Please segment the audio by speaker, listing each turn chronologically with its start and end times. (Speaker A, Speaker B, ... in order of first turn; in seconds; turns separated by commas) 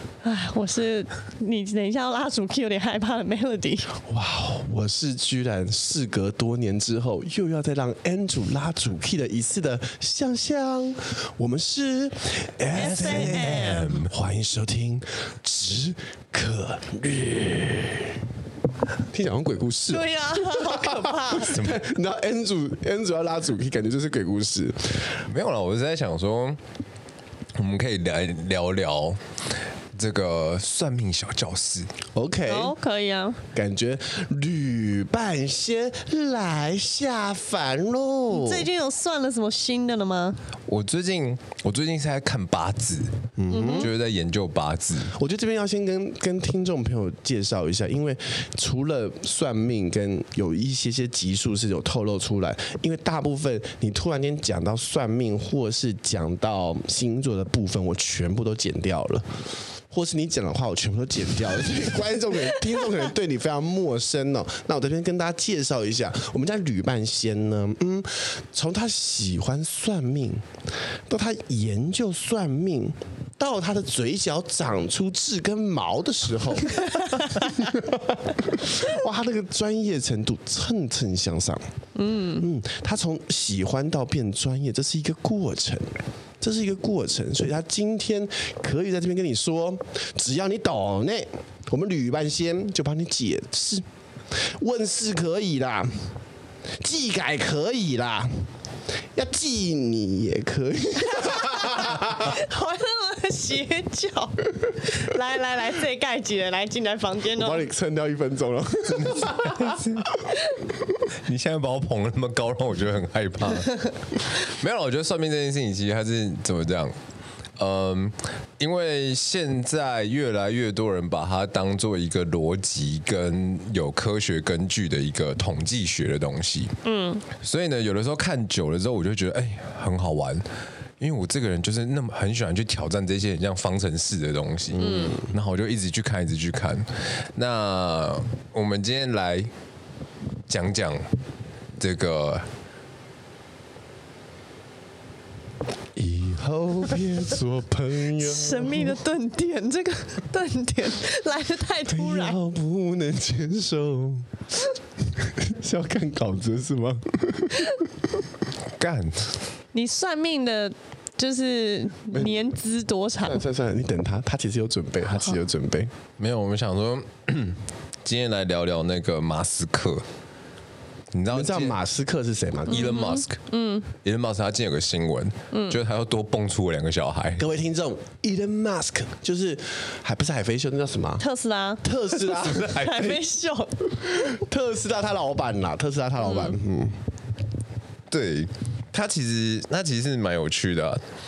Speaker A: 0.2-3.9, Speaker B: 4.0-18.2, Speaker A: 12.7-14.0, Speaker C: 12.7-14.1, Speaker B: 19.1-25.1, Speaker A: 19.9-21.6, Speaker C: 21.3-21.8, Speaker C: 25.2-26.6, Speaker C: 27.6-29.2, Speaker C: 29.9-31.9, Speaker B: 32.1-32.8, Speaker A: 32.5-33.4, Speaker B: 33.5-38.7, Speaker A: 38.3-40.4, Speaker C: 40.7-43.2, Speaker B: 43.4-43.9, Speaker A: 43.5-43.9, Speaker C: 43.7-45.1, Speaker B: 45.1-59.2, Speaker B: 59.9-70.4, Speaker B: 71.1-81.6, Speaker A: 81.9-82.5, Speaker B: 82.4-85.9, Speaker B: 86.4-93.8, Speaker B: 94.6-95.9, Speaker B: 96.8-98.3, Speaker B: 99.1-102.3, Speaker A: 101.1-107.7, Speaker B: 107.3-109.8, Speaker C: 108.9-110.2, Speaker C: 111.2-116.9, Speaker C: 117.6-126.7, Speaker A: 126.8-127.2, Speaker C: 127.4-130.4, Speaker C: 131.0-139.5, Speaker B: 134.8-135.3, Speaker A: 134.8-135.2, Speaker C: 140.5-141.0, Speaker C: 141.8-142.5, Speaker B: 145.9-149.0, Speaker A: 148.2-152.4, Speaker B: 151.9-154.4, Speaker B: 155.2-158.1, Speaker C: 158.8-159.3, Speaker A: 159.7-163.4, Speaker B: 162.1-162.5, Speaker B: 163.2-165.9, Speaker C: 166.2-170.0, Speaker C: 171.1-171.8, Speaker B: 171.3-173.0, Speaker C: 172.7-173.4, Speaker A: 172.7-173.9, Speaker C: 174.0-177.4, Speaker A: 175.5-175.8, Speaker B: 177.4-181.2, Speaker A: 181.2-181.8, Speaker B: 181.8-182.8, Speaker C: 182.1-183.2, Speaker A: 182.6-183.8, Speaker B: 183.9-187.0, Speaker A: 186.2-186.6, Speaker C: 188.1-191.0